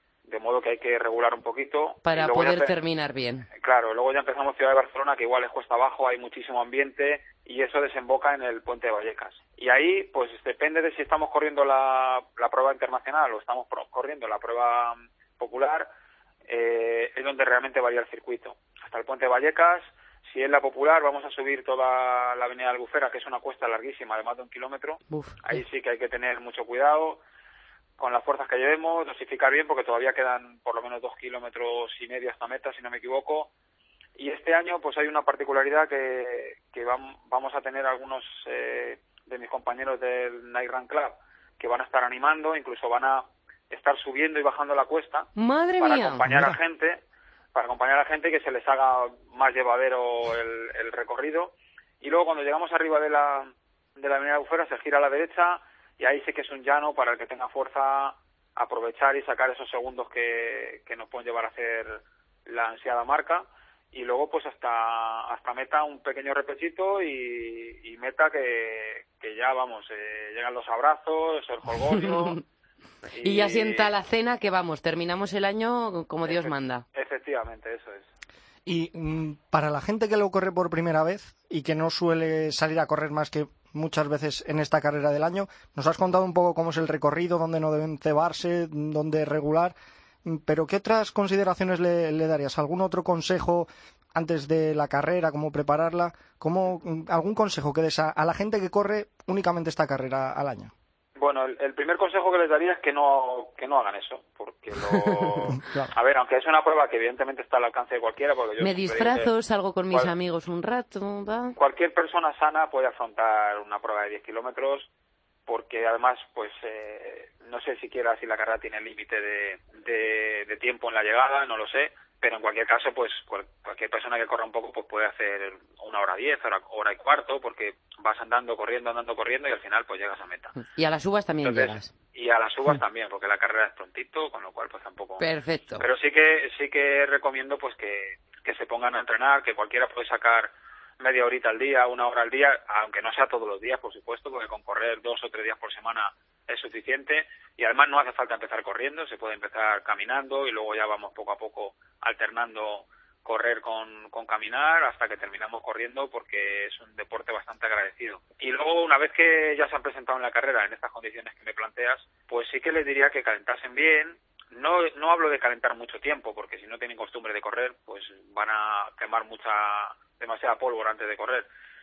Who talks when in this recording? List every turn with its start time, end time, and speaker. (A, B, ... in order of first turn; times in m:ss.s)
0:00.3-0:02.7 A
0:02.0-0:03.5 B
0:03.6-0:15.9 A
0:16.5-0:27.2 A
0:25.1-0:25.6 B
0:28.0-0:33.5 A
0:34.2-0:45.3 A
0:45.4-0:46.2 B
0:45.8-0:47.0 A
0:46.3-0:46.6 C
0:47.5-1:12.4 A
1:11.9-1:12.4 B
1:13.2-1:13.9 A
1:13.2-1:16.8 B
1:16.2-1:18.1 A
1:18.7-1:40.7 C
1:41.2-1:49.3 A
1:45.6-1:45.9 C
1:48.6-1:51.6 B
1:51.6-1:54.9 A
1:55.5-2:10.6 A
2:10.6-2:11.9 B
2:11.4-2:15.2 A
2:15.2-2:15.9 B
2:15.8-2:51.5 A